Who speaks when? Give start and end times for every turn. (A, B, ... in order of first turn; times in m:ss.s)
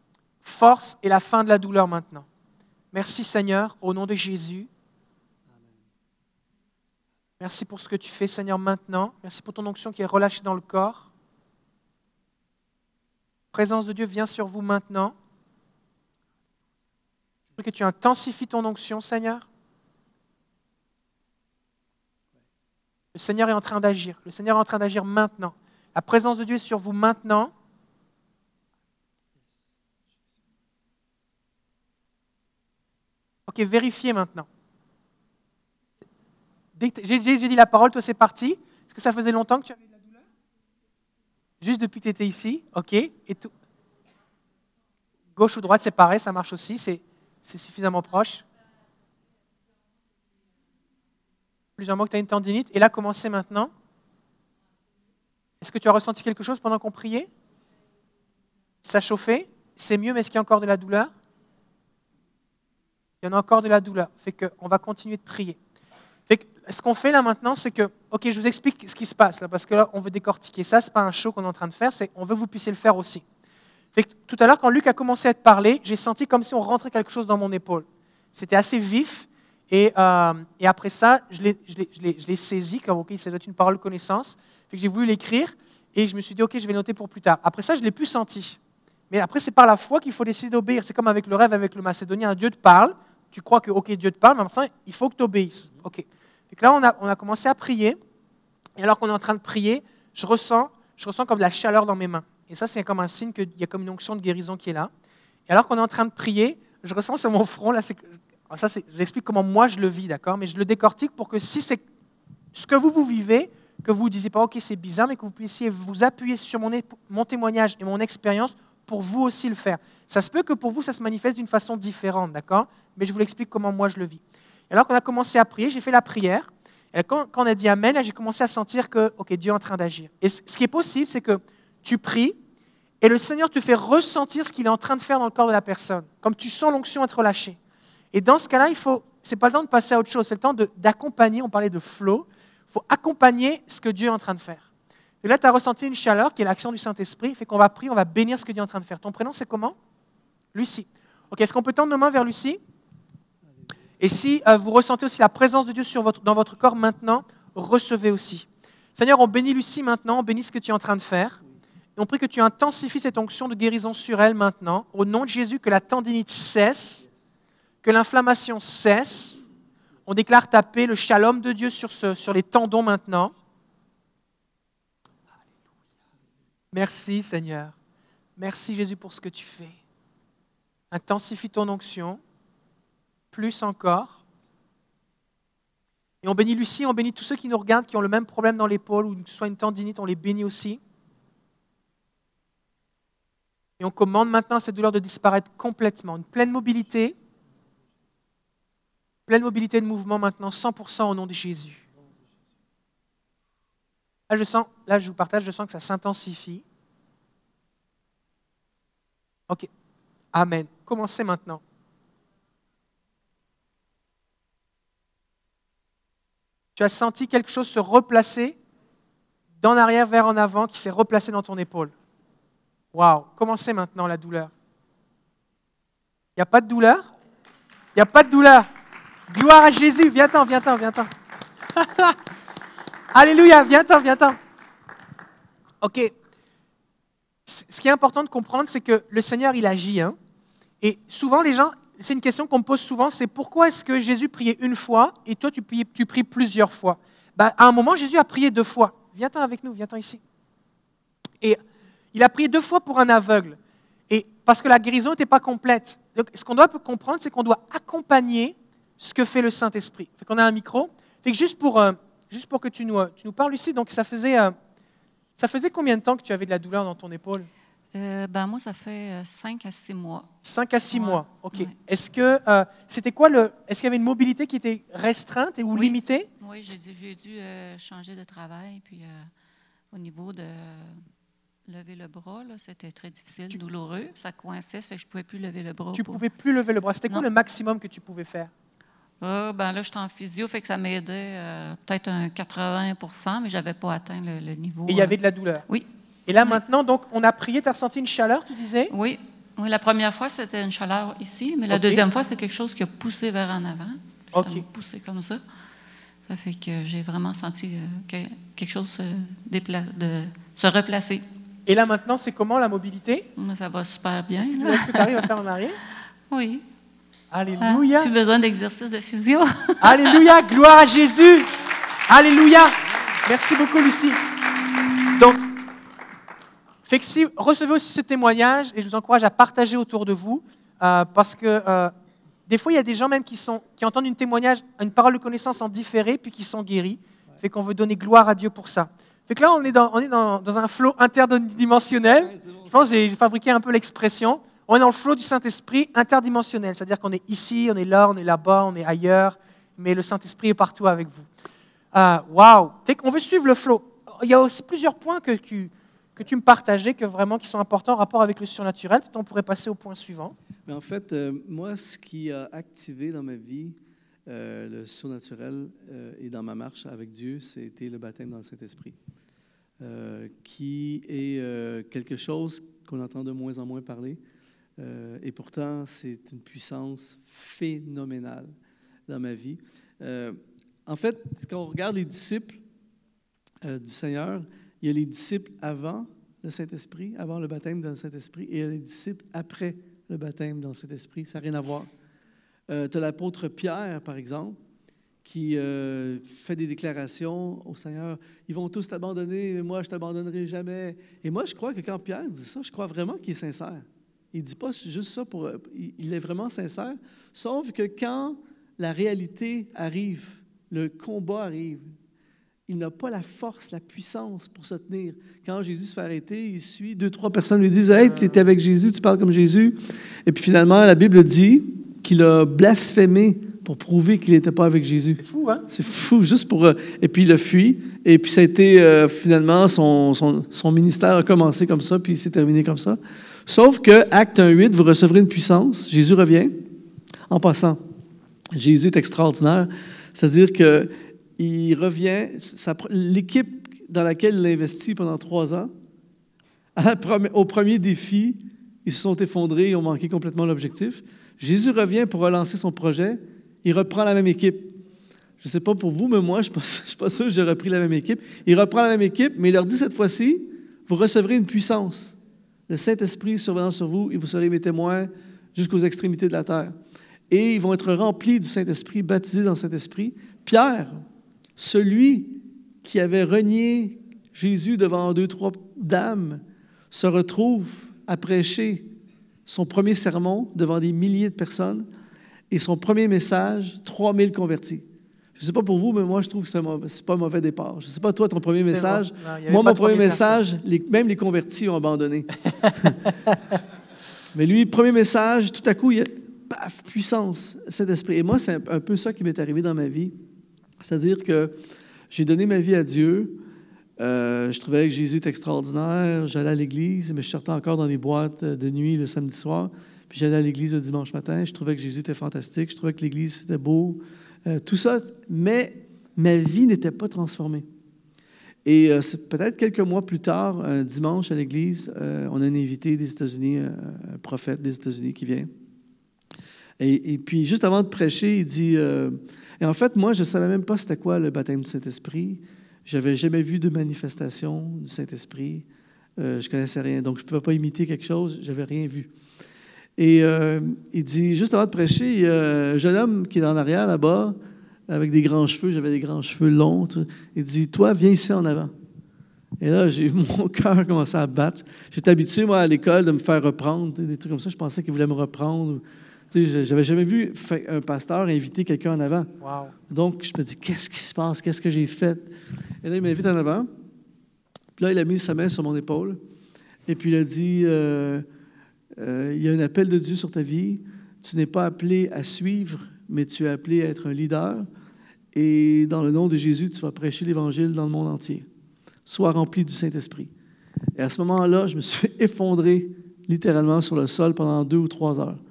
0:00.4-0:02.2 A
0:02.9-0:04.7 A
0:05.5-0:05.8 B
0:07.4-0:11.1 A
0:13.5-0:15.1 A
0:17.6-0:19.5 A
0:23.1-0:27.5 A
0:33.5-0:34.5 A
0:36.8-0:40.2 A
0:41.6-0:43.5 A
0:45.4-0:48.4 A
0:51.8-0:53.7 A
0:55.6-0:57.3 A
0:58.8-1:01.1 A
1:03.2-1:05.6 A
1:06.3-1:13.2 A
1:13.9-1:28.6 A
1:29.1-1:38.0 A
1:38.8-1:44.9 A
1:45.5-1:51.8 A
1:52.5-2:12.4 A
2:13.0-2:17.6 A
2:18.1-2:24.7 A
2:25.2-2:29.8 A
2:30.5-2:32.6 A
2:34.0-2:41.4 A
2:42.0-2:47.0 A
2:47.8-2:49.4 A
2:50.1-2:53.3 A
2:56.7-2:57.8 A
2:58.4-2:59.8 A
3:00.9-3:02.2 A
3:03.3-3:04.2 A
3:06.2-3:10.8 A
3:13.8-3:17.1 A
3:19.3-3:21.8 A
3:24.3-3:26.6 A
3:30.3-3:31.6 A
3:36.8-3:38.6 A
3:39.6-3:41.9 A
3:42.9-3:44.5 A
3:46.4-3:47.1 A
3:47.9-3:48.7 A
3:49.3-3:51.1 A
3:51.7-3:52.2 A
3:53.1-3:54.4 A
3:55.8-3:56.1 A
3:57.4-4:00.2 A
4:00.8-4:10.2 A
4:12.1-4:13.6 A
4:14.1-4:24.6 A
4:25.4-4:27.5 A
4:27.9-4:30.3 C
4:30.4-4:36.3 A
4:30.9-4:31.7 C
4:35.7-4:39.3 C
4:39.9-4:41.0 C
4:41.7-4:46.2 C
4:45.9-4:48.5 A
4:49.2-4:55.2 C
4:54.9-4:55.6 A
4:56.3-4:58.9 A
4:58.9-5:05.4 C
5:01.7-5:02.0 A
5:04.3-5:04.6 A
5:06.3-5:11.2 C
5:11.7-5:13.3 A
5:13.4-5:15.3 C
5:14.4-5:15.8 A
5:16.3-5:16.6 C
5:17.3-5:18.1 A
5:17.6-5:20.3 C
5:19.8-5:21.5 A
5:22.1-5:24.2 A
5:25.1-5:25.4 A
5:26.8-5:31.9 A
5:32.5-5:51.3 A
5:42.2-5:43.0 B
5:51.9-6:00.4 A
6:00.6-6:09.0 B
6:09.8-6:14.2 B
6:14.8-6:18.5 B
6:19.1-6:22.6 B
6:23.6-6:31.9 B
6:32.7-6:34.6 B
6:35.2-6:51.9 B
6:52.7-7:16.6 B
6:57.9-6:58.4 A
7:05.2-7:05.6 A
7:17.3-7:17.8 B
7:18.5-7:25.7 B
7:26.8-7:34.8 B
7:35.4-7:42.2 B
7:42.7-7:46.8 B
7:47.3-7:51.0 B
7:51.6-7:58.9 B
7:59.4-8:01.9 B
8:02.5-8:04.8 B
8:05.4-8:13.1 B
8:08.7-8:10.4 A
8:14.3-8:20.2 B
8:20.8-8:21.6 B
8:22.1-8:23.4 B
8:24.0-8:37.7 B
8:38.6-8:45.5 B
8:46.8-8:55.6 B
8:56.2-8:59.1 B
9:00.0-9:04.4 B
9:04.9-9:08.7 B
9:09.6-9:19.3 B
9:19.4-9:19.7 A
9:19.9-9:23.7 B
9:24.8-9:26.2 B
9:26.9-9:28.2 B
9:29.0-9:34.6 B
9:35.3-9:38.5 B
9:39.0-9:40.3 B
9:41.0-9:45.4 B